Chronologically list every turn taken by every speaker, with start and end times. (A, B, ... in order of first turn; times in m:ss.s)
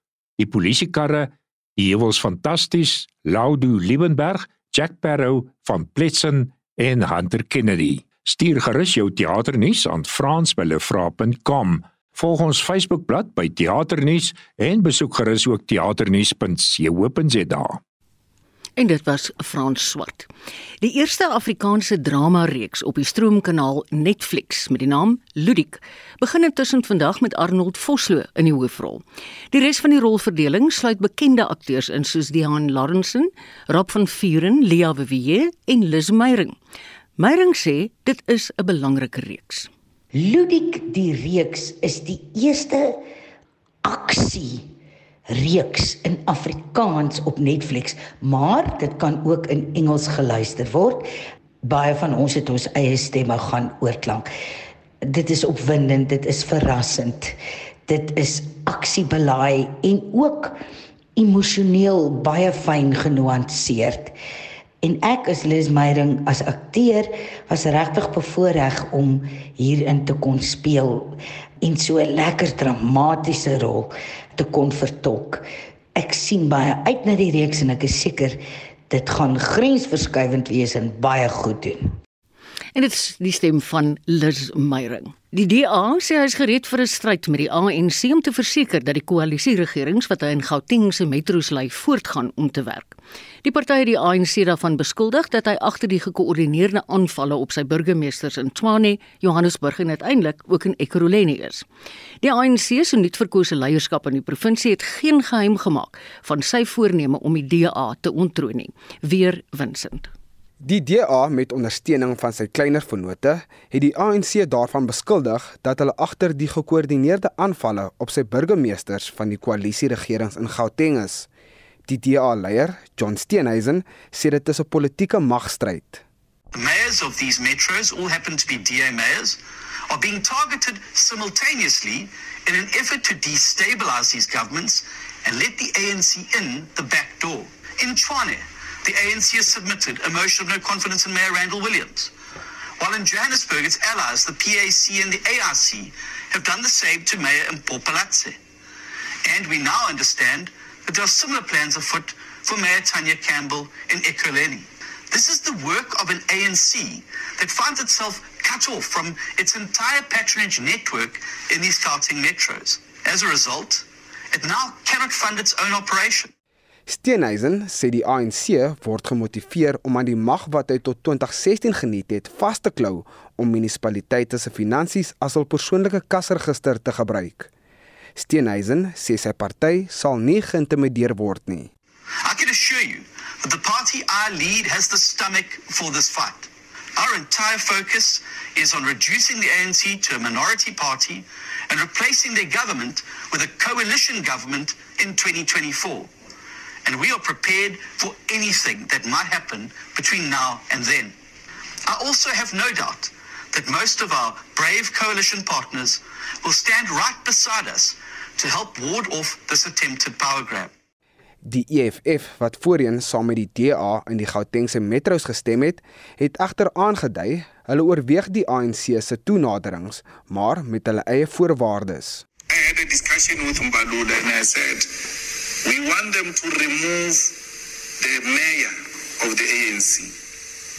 0:00.4-0:17.8 A
0:18.8-0:20.3 B
0:20.8-0:36.6 B
0:37.2-0:39.7 B
0:40.1-0:43.0 C
0:43.8-0:44.7 C
0:45.3-0:51.0 C
0:51.6-0:54.3 C
0:55.1-1:00.6 C
1:01.2-1:04.2 C
1:04.8-1:15.4 C
1:16.0-1:21.9 C
1:22.8-1:41.7 B
1:42.2-1:50.1 B
1:50.6-2:01.3 D
2:01.9-2:06.0 D
2:06.5-2:09.4 E
2:09.9-2:22.1 E
2:22.8-2:28.4 E
2:29.3-2:46.3 E
2:46.9-2:57.5 D
2:58.2-3:01.7 D
3:02.2-3:16.1 E
3:16.8-3:21.2 E
3:21.9-3:30.7 E
3:31.4-3:42.2 D
3:42.5-3:44.9 F
3:45.6-3:47.4 F
3:48.0-3:50.2 F